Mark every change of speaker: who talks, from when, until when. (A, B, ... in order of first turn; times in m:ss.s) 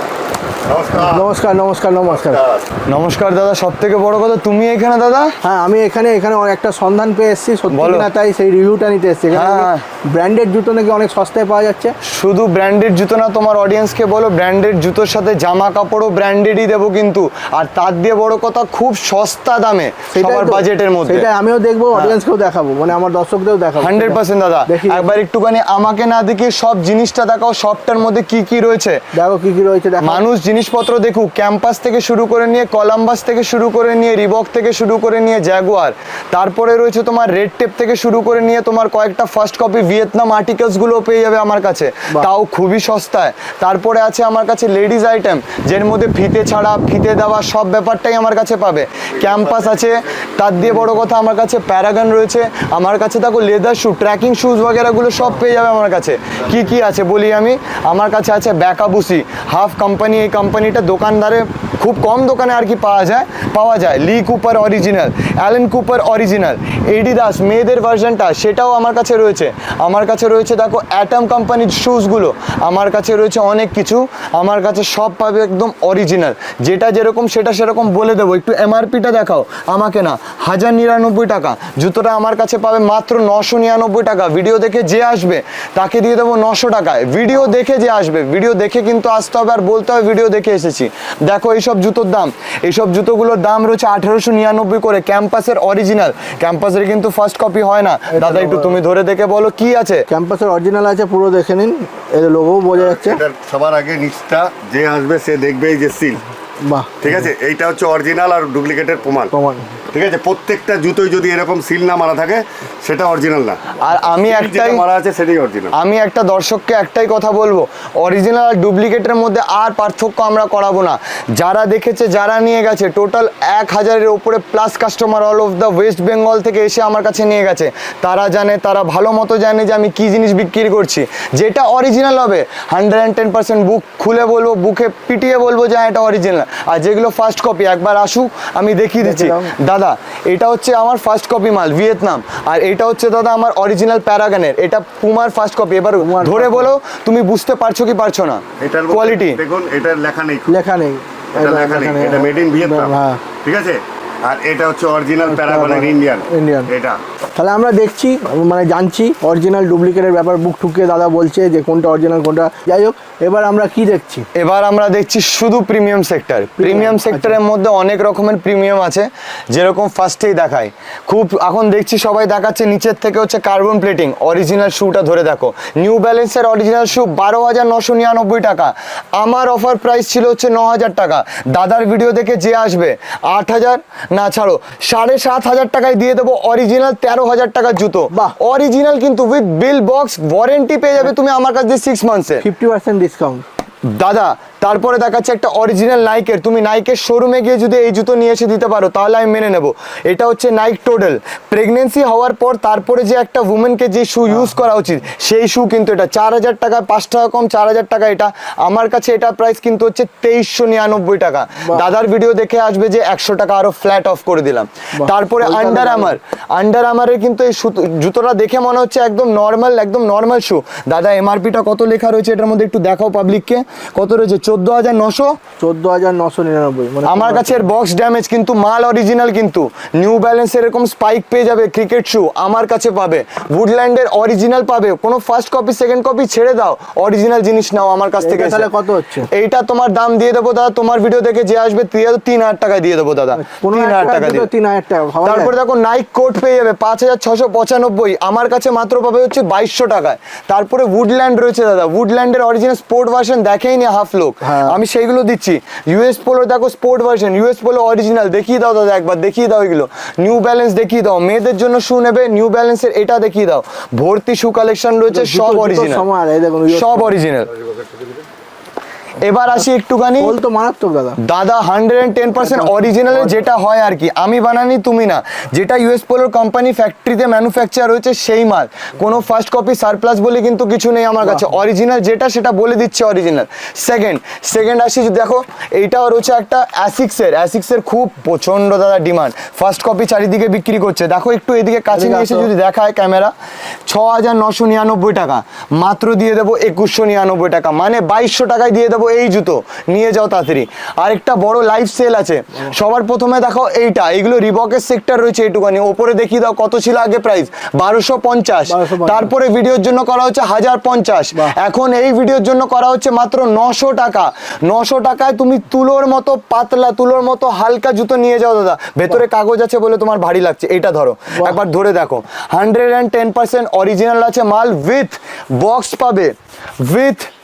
0:00.6-0:01.3 A
0:01.0-0:02.4 B
0:02.1-0:02.7 A
0:02.9-0:05.3 C
0:05.4-0:11.9 B
0:07.7-0:08.1 C
0:09.3-0:09.8 C
0:12.0-0:21.3 C
0:20.1-0:25.1 B
0:23.8-0:29.0 C
0:29.1-0:30.3 B
0:30.0-1:40.1 C
1:38.1-1:38.8 B
1:40.1-1:43.2 B
1:42.7-1:46.2 A
1:46.6-1:47.1 B
1:47.0-1:49.3 A
1:49.3-1:49.8 B
1:49.9-1:55.7 A
1:53.7-1:54.8 C
1:55.7-2:29.4 C
2:19.0-2:19.5 B
2:26.0-2:26.7 B
2:28.6-2:30.5 A
2:30.5-2:33.2 B
2:31.3-2:37.0 A
2:35.2-2:36.7 B
2:37.4-2:44.3 B
2:44.3-3:12.4 C
2:46.6-2:47.4 B
3:12.4-3:13.4 B
3:13.9-3:45.3 C
3:31.6-3:31.9 B
3:35.0-3:36.1 B
3:45.6-3:47.7 B
3:47.0-3:58.7 C
3:58.2-3:59.3 B
3:59.3-4:04.5 C
4:03.3-4:05.5 B
4:05.2-4:26.0 C
4:14.4-4:14.8 B
4:25.1-4:27.2 B
4:26.7-4:27.5 C
4:29.2-4:30.3 C
4:30.2-4:31.2 B
4:31.2-4:53.3 C
4:32.4-4:33.4 B
4:41.2-4:41.5 B
4:51.9-4:52.5 B
4:53.8-5:27.3 C
5:08.7-5:09.3 B